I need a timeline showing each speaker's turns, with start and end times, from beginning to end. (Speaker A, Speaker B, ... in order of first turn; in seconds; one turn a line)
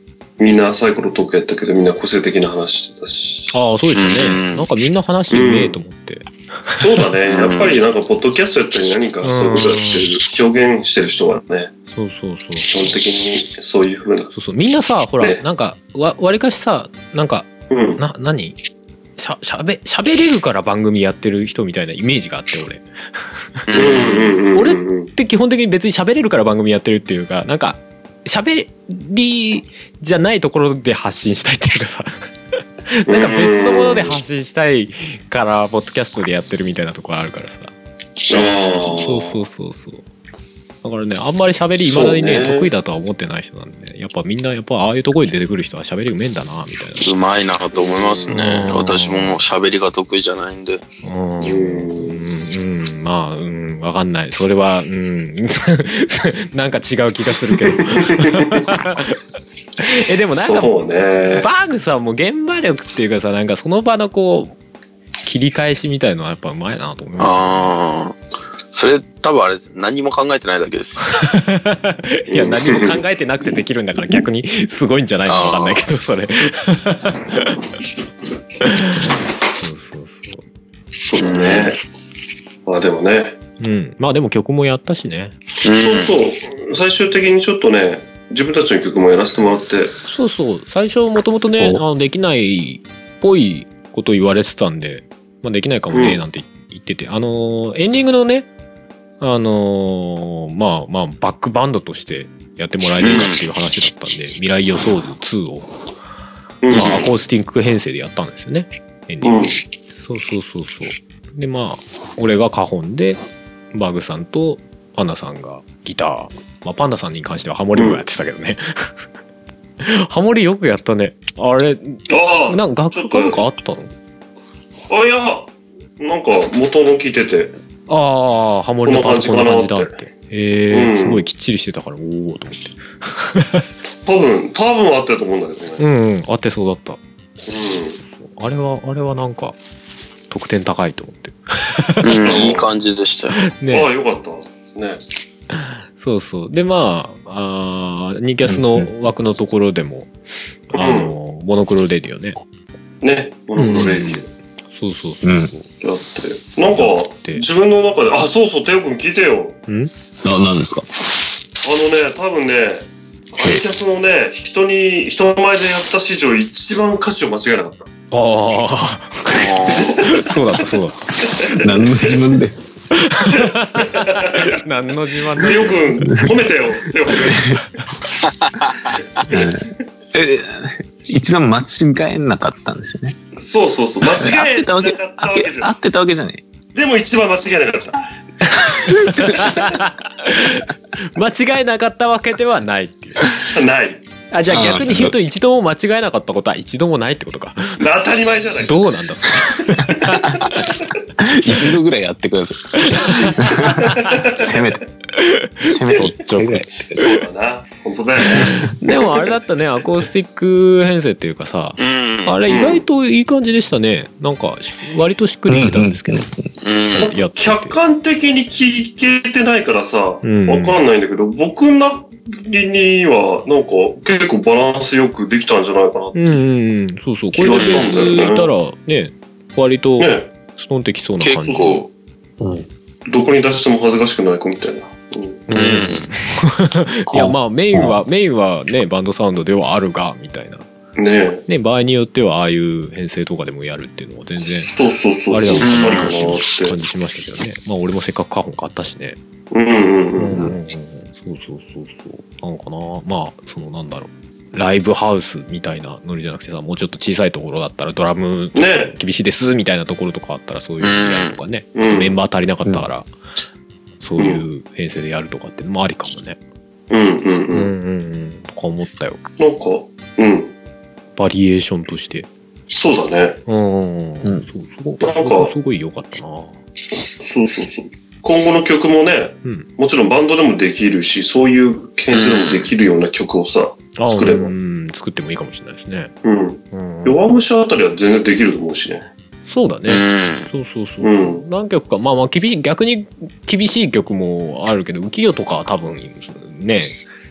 Speaker A: 0.4-3.5
Speaker B: 3.5-7.0
Speaker C: 3.9-4.7
Speaker A: 5.3-5.8
Speaker A: 6.8-11.7
Speaker C: 7.3-7.8
Speaker B: 9.2-10.1
Speaker B: 11.9-13.0
Speaker A: 12.6-14.3
Speaker B: 14.3-18.6
Speaker A: 17.7-18.0
Speaker B: 19.2-32.1
Speaker C: 23.7-24.4
Speaker A: 23.7-25.1
Speaker B: 32.9-37.7
Speaker A: 33.1-34.2
Speaker A: 38.3-39.4
Speaker C: 38.3-38.8
Speaker B: 38.9-40.0
Speaker B: 40.8-47.1
Speaker A: 41.8-42.7
Speaker C: 47.0-50.8
Speaker A: 47.8-48.3
Speaker B: 48.3-49.4
Speaker B: 51.0-59.2
Speaker A: 51.4-52.2
Speaker A: 57.8-58.6
Speaker B: 59.8-64.5
Speaker A: 60.3-61.5
Speaker B: 65.2-67.8
Speaker C: 67.2-68.2
Speaker C: 68.7-71.1
Speaker B: 71.1-77.6
Speaker A: 72.3-73.0
Speaker C: 75.3-75.9
Speaker B: 78.6-80.4
Speaker A: 81.0-81.8
Speaker C: 81.2-81.7
Speaker A: 82.7-83.4
Speaker B: 83.6-85.3
Speaker C: 85.6-86.2
Speaker A: 85.8-90.0
Speaker B: 90.0-98.5
Speaker A: 95.9-96.2
Speaker B: 99.2-105.7
Speaker C: 103.0-103.4
Speaker A: 106.6-107.1
Speaker B: 106.7-109.4
Speaker A: 109.2-109.6
Speaker B: 110.0-113.2
Speaker B: 113.7-118.9
Speaker A: 117.8-118.0
Speaker B: 119.8-123.9
Speaker A: 122.1-123.4
Speaker A: 124.9-127.5
Speaker B: 127.9-133.7
Speaker A: 128.8-129.9
Speaker A: 130.7-131.2
Speaker A: 134.1-135.8
Speaker B: 135.8-137.0
Speaker A: 137.5-138.0
Speaker B: 138.1-139.6
Speaker B: 140.3-142.4
Speaker C: 142.0-143.4
Speaker A: 142.2-142.7
Speaker B: 143.4-143.9
Speaker A: 143.7-145.0
Speaker B: 145.5-150.1
Speaker D: 148.4-148.9
Speaker B: 150.7-152.4
Speaker A: 150.8-151.2
Speaker A: 153.0-154.3
Speaker B: 153.6-155.7
Speaker D: 155.2-155.5
Speaker A: 155.8-159.6
Speaker B: 156.6-157.4
Speaker D: 160.2-160.9
Speaker A: 161.6-167.9
Speaker D: 163.4-163.6
Speaker B: 168.1-171.4
Speaker C: 169.3-170.0
Speaker A: 169.7-170.3
Speaker A: 171.2-172.2
Speaker D: 171.5-172.6
Speaker B: 172.9-176.1
Speaker A: 173.3-174.6
Speaker A: 175.4-177.7
Speaker D: 176.0-176.3
Speaker D: 177.3-177.6
Speaker D: 179.2-183.2
Speaker A: 183.4-185.7
Speaker D: 184.0-186.4
Speaker A: 186.7-188.0
Speaker B: 188.6-193.4
Speaker D: 188.8-189.4
Speaker A: 189.2-189.6
Speaker A: 193.5-194.0
Speaker B: 194.3-197.8
Speaker D: 194.5-195.2
Speaker A: 197.8-198.8
Speaker B: 198.6-200.7
Speaker A: 199.8-200.2
Speaker D: 201.2-204.9
Speaker B: 202.9-203.8
Speaker A: 203.5-204.8
Speaker B: 205.2-206.1
Speaker D: 205.6-207.2
Speaker A: 205.9-206.4
Speaker A: 206.9-208.8
Speaker B: 208.5-216.3
Speaker C: 211.8-212.4
Speaker A: 212.5-212.8
Speaker D: 215.5-216.5
Speaker C: 216.6-217.1
Speaker A: 216.9-226.2
Speaker B: 217.0-217.8
Speaker B: 220.2-220.8
Speaker B: 226.2-231.8
Speaker A: 227.3-228.5
Speaker C: 227.6-228.0
Speaker A: 230.0-230.3
Speaker C: 231.2-231.9
Speaker A: 231.5-231.8
Speaker D: 232.4-232.7
Speaker A: 233.1-235.4
Speaker B: 235.5-240.7
Speaker C: 235.5-236.1
Speaker D: 237.1-238.0
Speaker A: 241.0-241.4
Speaker B: 241.5-244.7
Speaker A: 244.4-246.8
Speaker B: 245.3-249.2
Speaker C: 245.6-246.1
Speaker A: 249.5-250.5
Speaker B: 250.2-263.1
Speaker A: 258.6-258.9
Speaker C: 260.8-261.4
Speaker A: 261.8-262.2
Speaker B: 264.0-266.4
Speaker A: 264.2-264.4
Speaker A: 266.9-267.7
Speaker B: 267.5-269.2
Speaker A: 269.4-270.5
Speaker B: 271.2-272.3
Speaker A: 272.7-273.4
Speaker B: 273.5-276.6
Speaker A: 275.0-275.5
Speaker A: 277.2-284.5
Speaker C: 282.1-282.7
Speaker B: 284.0-286.1
Speaker A: 286.2-289.1
Speaker B: 286.7-287.2
Speaker B: 289.5-297.0
Speaker C: 289.9-290.5
Speaker A: 291.0-291.4